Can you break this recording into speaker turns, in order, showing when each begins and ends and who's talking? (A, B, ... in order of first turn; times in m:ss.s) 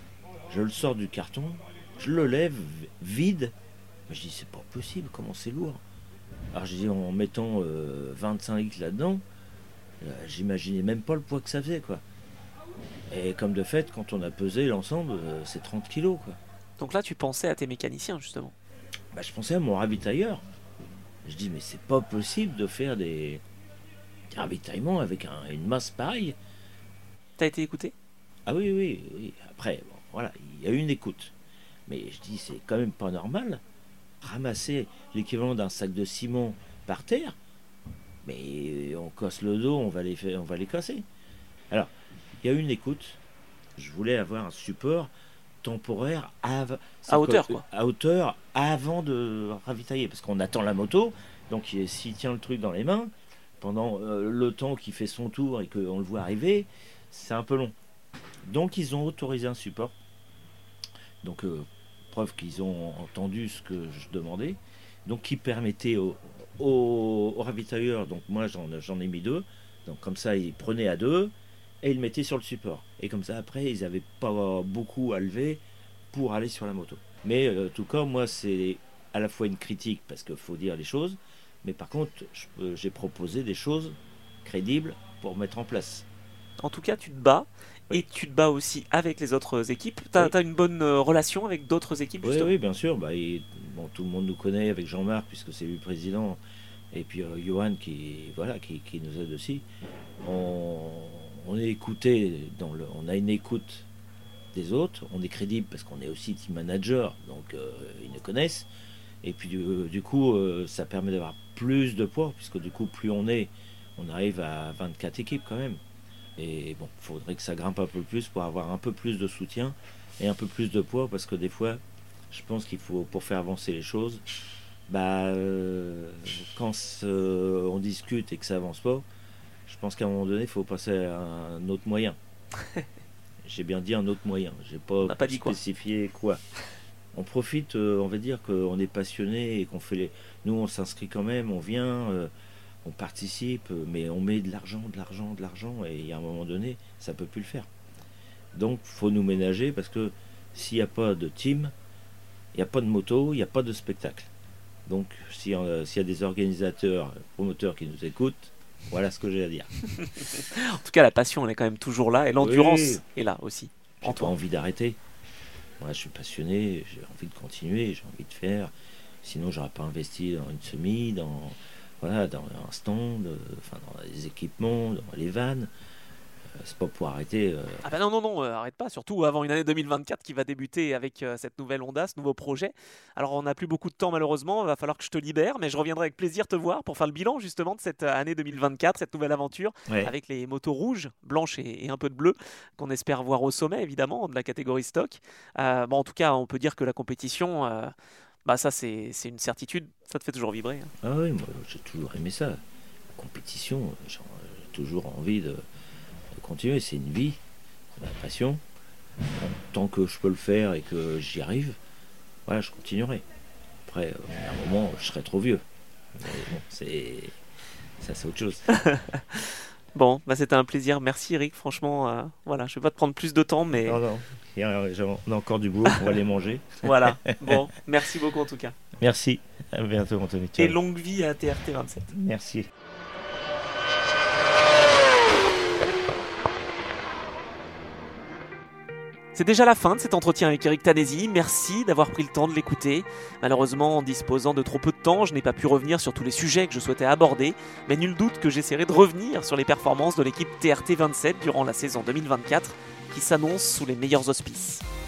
0:00.5-0:03.5 A
0:04.1-0:05.8 A
0:06.5-0:09.2 A
0:10.0-0:12.0 A
0:13.1-0:16.4 A
0:16.8-0:18.5 B
0:19.1-0:20.4 A
0:21.2-0:23.4 A
0:24.3-0:26.4 A
0:27.4-0:27.9 B
0:28.5-0:31.3 A
0:31.9-0:33.6 A
0:34.2-0:37.4 A
0:38.2-0:41.0 A
0:41.7-0:43.2 A
0:43.8-0:45.1 A
0:45.6-0:57.8 A
0:47.1-0:47.6 B
0:58.4-0:59.9 A
1:01.2-1:26.1 A
1:26.6-1:32.6 B
1:32.2-1:36.4 A
1:36.9-1:39.7 A
1:40.2-1:43.9 A
1:44.5-1:48.7 A
1:49.2-1:55.8 A
1:56.4-2:04.2 A
2:04.9-2:09.1 A
2:09.7-2:12.2 A
2:13.4-2:16.4 A
2:15.0-2:15.6 B
2:17.1-2:22.3 A
2:22.8-2:27.7 A
2:28.5-2:31.7 A
2:32.5-2:34.3 A
2:34.9-2:39.7 A
2:40.0-2:44.3 B
2:42.4-2:43.0 A
2:44.0-2:45.0 A
2:45.8-2:48.7 A
2:49.2-2:55.7 A
2:56.6-2:57.8 A
2:57.8-3:17.9 B
3:09.9-3:10.1 A
3:18.4-3:20.9 B
3:21.0-3:22.6 A
3:23.2-3:25.6 A
3:26.3-3:27.4 A
3:28.0-3:28.6 A
3:29.4-3:31.8 A
3:32.5-3:33.2 A
3:33.9-3:35.6 A
3:36.2-3:37.4 A
3:38.0-3:38.7 A
3:38.7-3:44.0 B
3:43.9-3:47.5 A
3:46.8-3:48.8 B
3:49.0-3:50.8 A
3:50.6-3:52.1 B
3:52.1-3:52.7 A
3:59.3-4:14.8 B